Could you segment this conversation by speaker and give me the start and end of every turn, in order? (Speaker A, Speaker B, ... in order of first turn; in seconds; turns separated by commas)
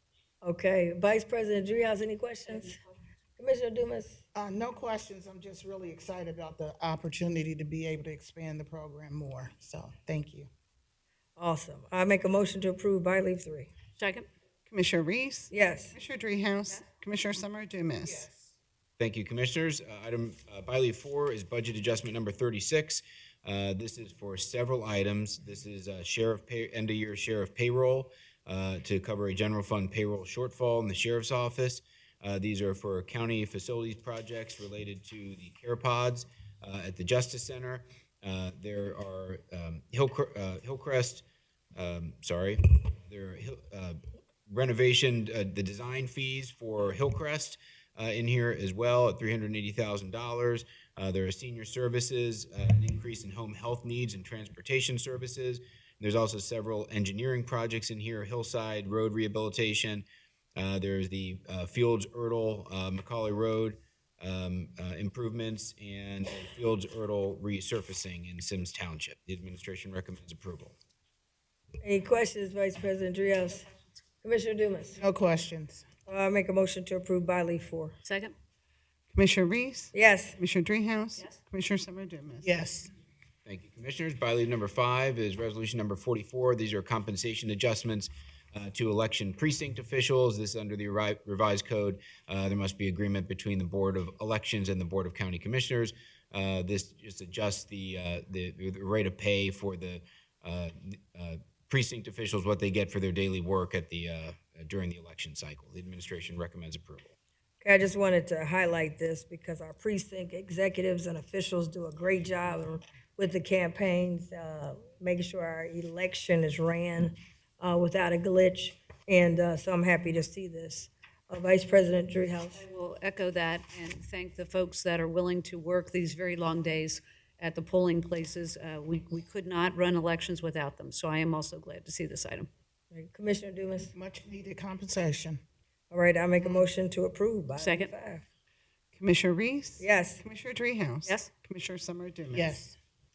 Speaker A: 0.4-2.8, Speaker A: 3.4-4.2, Speaker B: 4.3-10.5, Speaker A: 11.4-13.7, Speaker C: 14.0-14.3, Speaker D: 14.7-18.3, Speaker A: 15.5-15.9, Speaker B: 18.0-18.6, Speaker E: 19.0-41.2, Speaker E: 41.8-70.8, Speaker A: 71.8-73.7, Speaker A: 74.2-75.0, Speaker B: 75.0-75.9, Speaker A: 76.1-78.0, Speaker C: 78.0-78.3, Speaker D: 79.1-82.5, Speaker A: 79.9-80.4, Speaker B: 82.4-82.9, Speaker E: 83.5-107.2, Speaker A: 107.6-122.7, Speaker C: 122.5-132.5, Speaker A: 132.9-133.9, Speaker B: 133.9-135.4, Speaker A: 135.9-138.2, Speaker C: 137.6-137.9, Speaker D: 138.9-142.6, Speaker A: 139.8-140.2, Speaker C: 141.1-141.3, Speaker B: 142.3-142.8